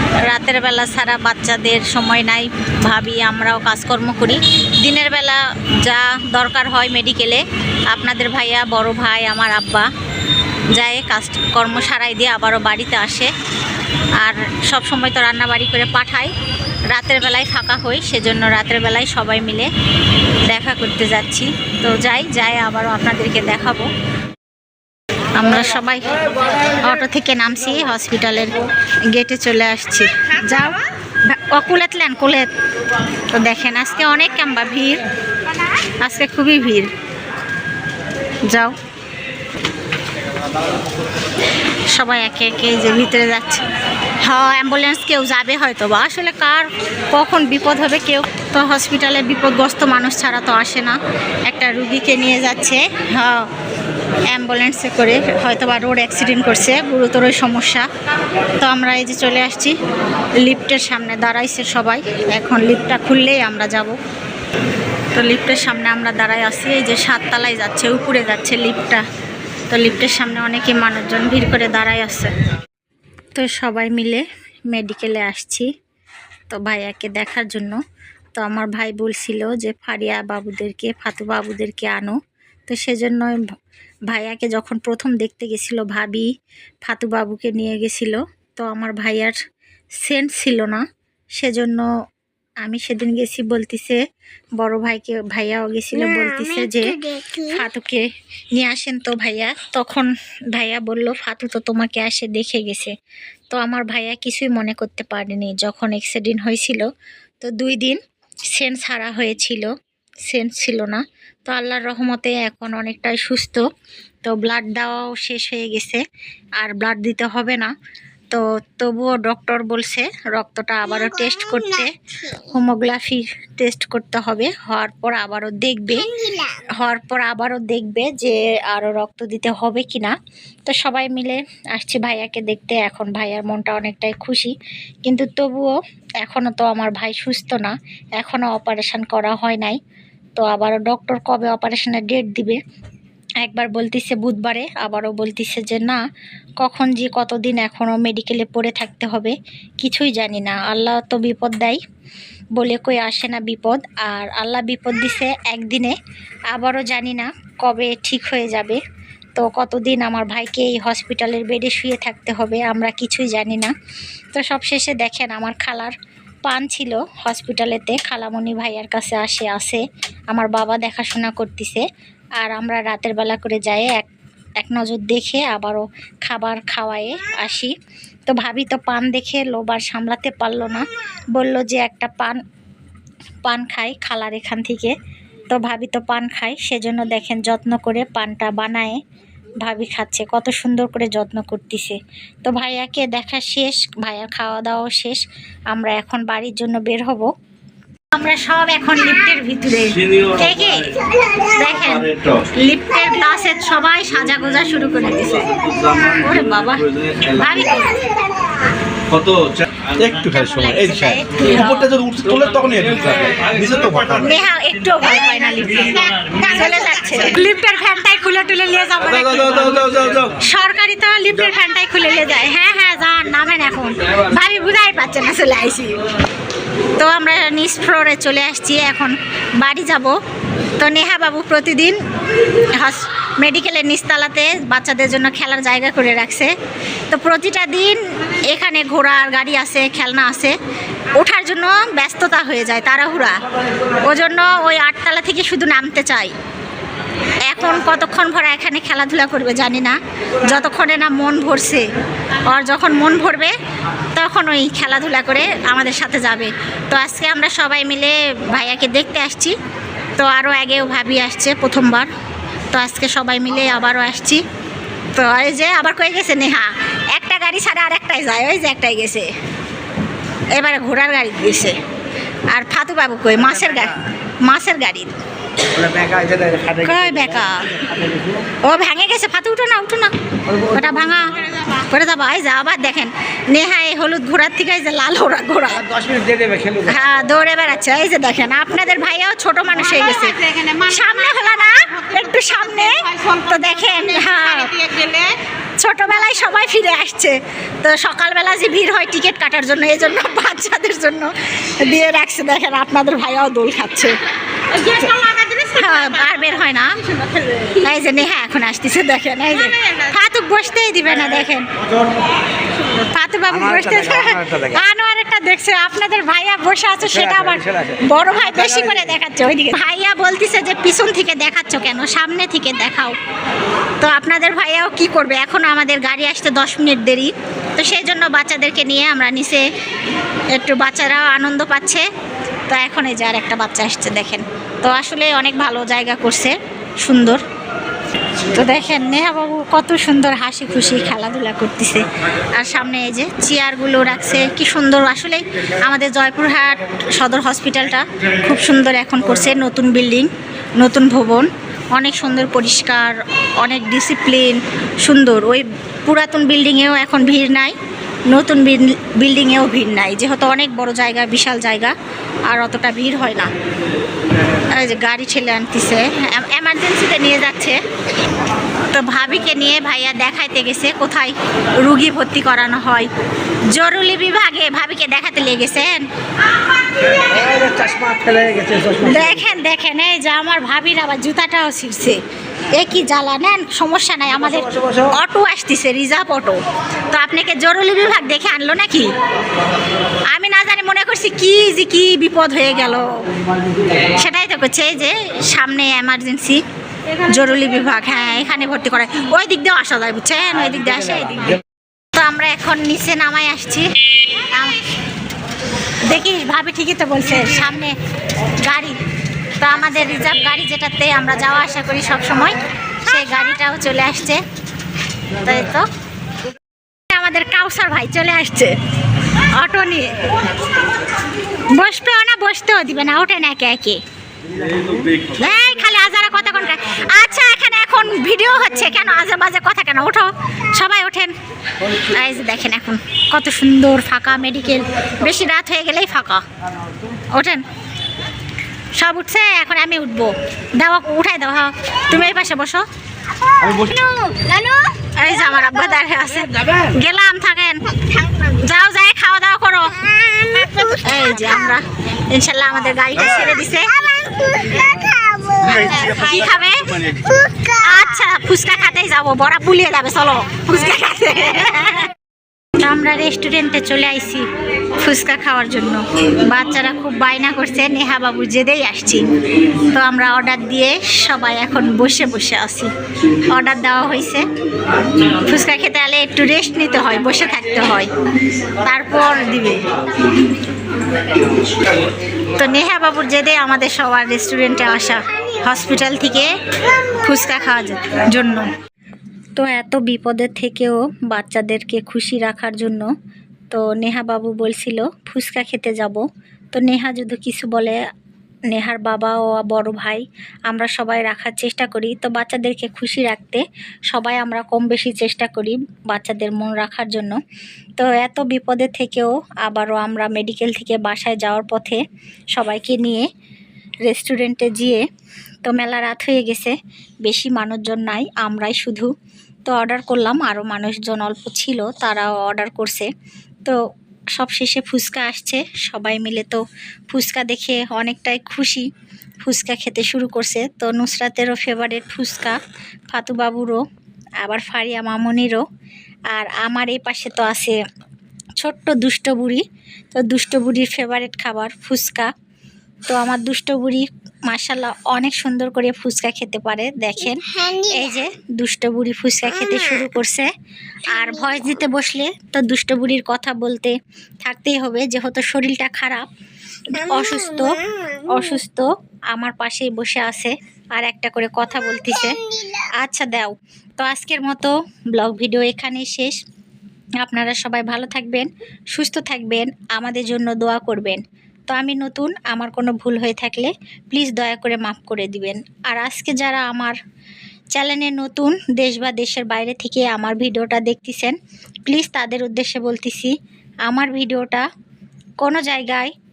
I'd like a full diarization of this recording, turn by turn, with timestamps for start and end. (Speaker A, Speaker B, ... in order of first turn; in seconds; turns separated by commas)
Speaker A: 0.2-9.9, Speaker A: 10.7-13.3, Speaker A: 14.2-16.3, Speaker A: 16.9-19.7, Speaker A: 20.5-23.9, Speaker A: 25.4-26.1, Speaker A: 26.8-28.6, Speaker A: 29.1-32.5, Speaker A: 33.3-35.0, Speaker A: 36.0-36.9, Speaker A: 42.0-43.6, Speaker A: 44.2-53.5, Speaker A: 54.3-57.9, Speaker A: 58.6-59.7, Speaker A: 60.4-64.0, Speaker A: 65.2-69.0, Speaker A: 69.7-72.3, Speaker A: 73.4-75.7, Speaker A: 76.5-77.8, Speaker A: 78.4-83.4, Speaker A: 84.1-86.3, Speaker A: 86.9-89.4, Speaker A: 90.0-90.8, Speaker A: 91.4-91.8, Speaker A: 92.6-94.0, Speaker A: 94.6-102.9, Speaker B: 96.0-97.6, Speaker A: 103.5-106.9, Speaker A: 107.4-108.0, Speaker A: 108.5-109.7, Speaker A: 110.3-113.6, Speaker A: 114.2-116.0, Speaker A: 116.6-117.7, Speaker A: 118.3-126.1, Speaker B: 121.2-121.7, Speaker B: 126.0-126.7, Speaker A: 126.8-130.2, Speaker A: 130.7-134.5, Speaker A: 135.1-139.8, Speaker A: 140.4-142.6, Speaker A: 143.4-146.0, Speaker A: 146.6-151.8, Speaker A: 152.6-156.0, Speaker A: 156.5-158.8, Speaker A: 159.4-163.7, Speaker A: 164.3-169.8, Speaker A: 170.3-171.8, Speaker A: 172.4-174.1, Speaker A: 174.6-177.7, Speaker A: 178.3-182.4, Speaker A: 183.4-184.9, Speaker A: 185.5-189.0, Speaker A: 189.6-197.3, Speaker A: 198.1-201.0, Speaker B: 201.2-201.5, Speaker A: 201.5-208.1, Speaker C: 202.1-202.3, Speaker B: 205.7-206.1, Speaker C: 205.8-206.2, Speaker C: 207.0-207.3, Speaker B: 207.9-208.6, Speaker C: 209.1-214.2, Speaker A: 210.2-212.0, Speaker A: 214.1-225.9, Speaker C: 219.7-220.3, Speaker A: 227.0-230.1, Speaker A: 230.8-232.0, Speaker A: 232.8-236.5, Speaker A: 237.1-240.5, Speaker A: 241.2-243.4, Speaker A: 244.0-246.3, Speaker A: 247.4-251.8, Speaker A: 252.5-253.5, Speaker A: 254.1-259.6, Speaker A: 260.2-262.1, Speaker A: 262.7-264.4, Speaker A: 265.1-269.3, Speaker A: 270.6-271.8, Speaker A: 272.5-273.9, Speaker A: 274.5-275.1, Speaker A: 276.7-277.9, Speaker A: 278.6-280.1, Speaker A: 280.6-285.9, Speaker A: 286.7-295.2, Speaker A: 295.8-304.2, Speaker A: 304.7-306.9, Speaker A: 307.6-311.7, Speaker A: 312.9-323.2, Speaker A: 324.0-329.6, Speaker A: 330.5-332.1, Speaker A: 332.7-337.4, Speaker A: 338.5-357.8, Speaker A: 358.3-361.9, Speaker A: 362.5-363.5, Speaker A: 364.8-367.8, Speaker A: 368.9-373.1, Speaker A: 373.7-376.1, Speaker B: 377.9-378.7, Speaker A: 378.9-382.2, Speaker A: 382.7-386.6, Speaker A: 387.1-389.1, Speaker A: 390.3-393.1, Speaker A: 394.1-396.6, Speaker A: 397.3-401.5, Speaker A: 402.1-403.9, Speaker A: 404.4-404.8, Speaker A: 406.1-407.9, Speaker A: 408.6-409.0, Speaker A: 409.6-414.4, Speaker A: 415.4-415.9, Speaker A: 417.1-418.7, Speaker A: 419.5-420.1, Speaker A: 421.8-424.0, Speaker A: 425.4-431.3, Speaker A: 432.1-436.4, Speaker A: 437.3-437.6, Speaker A: 439.0-442.8, Speaker B: 443.5-445.0, Speaker A: 445.2-447.9, Speaker B: 448.0-448.6, Speaker A: 448.5-450.1, Speaker B: 450.0-451.2, Speaker A: 451.0-454.0, Speaker B: 453.9-456.1, Speaker A: 455.7-457.0, Speaker B: 457.1-457.9, Speaker A: 457.7-462.1, Speaker A: 462.8-464.5, Speaker A: 465.0-469.3, Speaker A: 469.9-472.9, Speaker A: 473.5-474.4, Speaker A: 475.2-478.1, Speaker A: 478.8-479.8, Speaker A: 482.6-486.5, Speaker A: 487.2-488.6, Speaker A: 489.6-493.1, Speaker A: 493.7-496.2, Speaker A: 496.7-498.0, Speaker A: 498.7-507.4, Speaker A: 508.0-512.0, Speaker A: 512.5-513.3, Speaker A: 514.0-515.0, Speaker A: 515.6-519.1, Speaker A: 519.6-523.1, Speaker A: 524.4-528.9, Speaker A: 529.4-532.6, Speaker A: 533.1-533.8, Speaker A: 534.4-535.6, Speaker A: 536.3-537.8, Speaker A: 538.6-542.3, Speaker A: 543.1-550.5, Speaker B: 547.4-548.1, Speaker A: 551.1-556.3, Speaker A: 556.9-566.4, Speaker B: 557.6-558.3, Speaker B: 562.4-562.8, Speaker A: 567.2-577.0, Speaker A: 577.7-581.4, Speaker A: 581.9-583.3, Speaker A: 583.9-584.7, Speaker A: 585.4-586.1